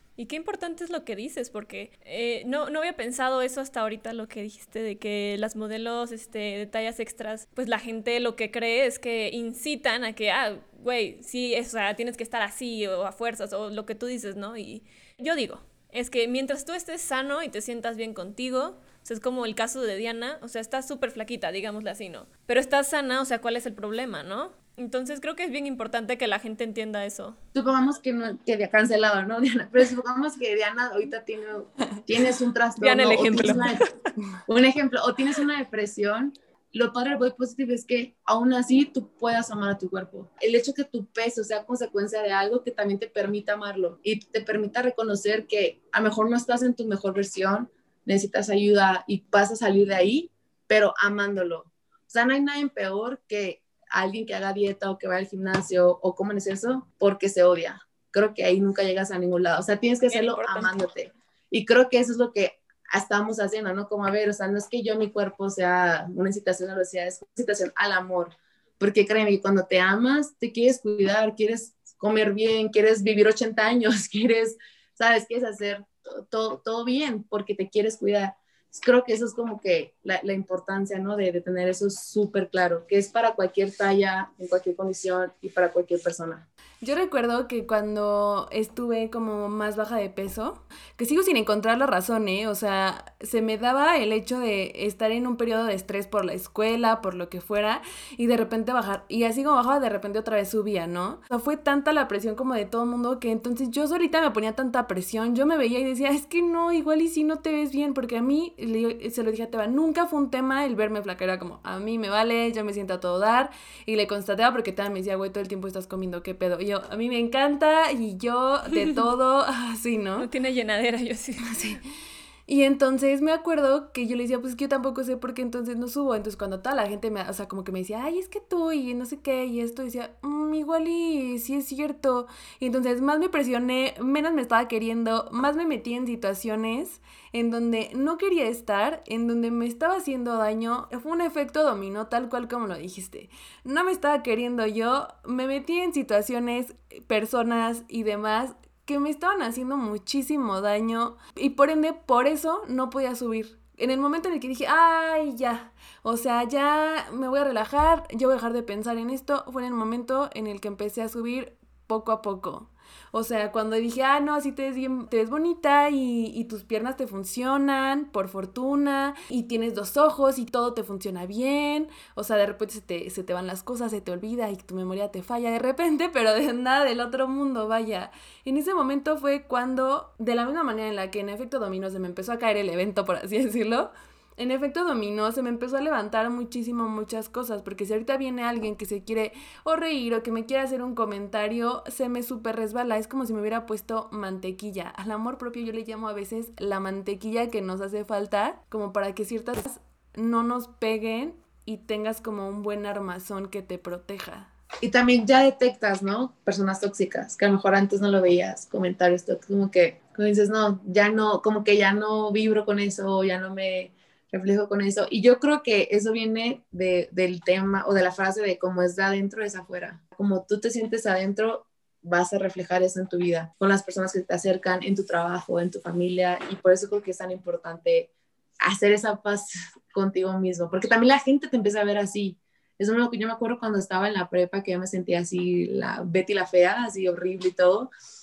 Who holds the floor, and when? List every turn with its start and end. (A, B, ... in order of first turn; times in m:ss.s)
0:00.2-0:27.4 A
0:27.5-0:33.8 B
0:32.8-0:33.9 A
0:34.5-1:26.4 B
1:00.1-1:00.8 A
1:26.8-2:00.3 C
2:00.2-2:01.7 A
2:01.5-2:01.8 C
2:02.5-3:24.5 C
3:24.8-3:48.1 B
3:48.6-3:57.9 B